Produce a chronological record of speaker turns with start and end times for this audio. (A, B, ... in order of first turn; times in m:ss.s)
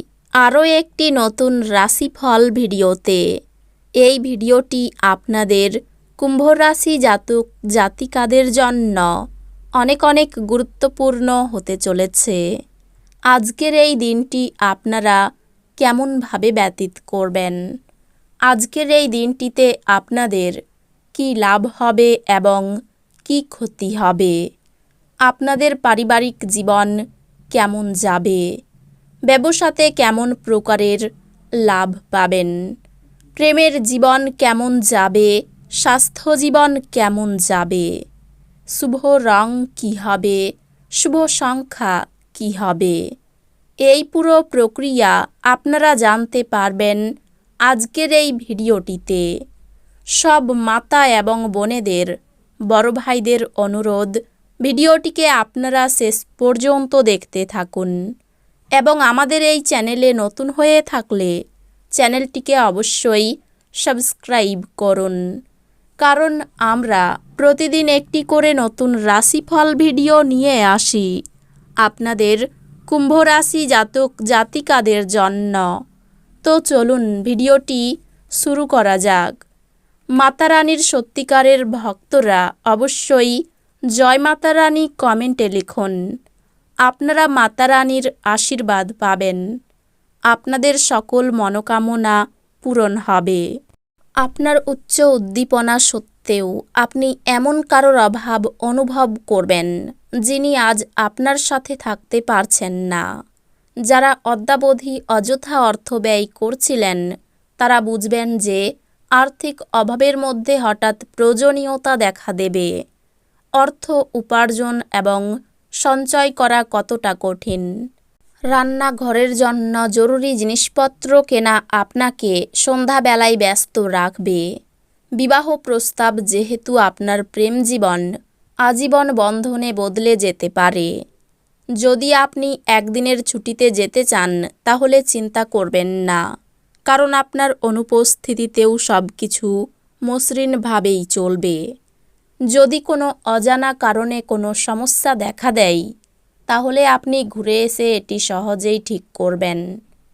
0:00.4-0:03.2 A
0:04.0-0:09.1 A
0:09.8-0:12.4 A
0:13.3-0:15.2 A
0:15.8-0:17.6 A
0:18.5-0:20.5 A
0:21.1-0:22.7 A
0:23.2-0:24.4 A
0:25.3-0:26.9 A
0:27.5-0:28.4 A
0:29.3-0:31.0 A
0:31.6-0:32.5 A
0:33.4-0:37.9 A
0:38.8-0:40.4 A
0:41.0-0:43.0 A
0:43.8-0:47.0 A
0:47.7-0:49.3 A
0:50.2-0:52.1 A
0:52.7-0:54.1 A
0:54.6-0:57.9 A
0:58.8-1:01.3 A
1:02.0-1:03.3 A
1:03.8-1:05.2 A
1:06.0-1:11.1 A
1:11.8-1:15.7 A
1:16.4-1:17.8 A
1:18.4-1:19.3 A
1:20.2-1:23.4 A
1:24.0-1:26.0 A
1:26.9-1:29.4 A
1:30.3-1:33.4 A
1:34.2-1:39.7 A
1:40.3-1:43.0 A
1:43.9-1:47.0 A
1:47.6-1:48.6 A
1:49.2-1:52.7 A
1:53.6-1:55.2 A
1:55.8-1:57.7 A
1:58.5-2:04.4 A
2:05.2-2:08.1 A
2:08.7-2:10.9 A
2:11.8-2:16.2 A
2:16.9-2:19.5 A
2:20.1-2:21.6 A
2:22.5-2:25.8 A
2:26.5-2:29.6 A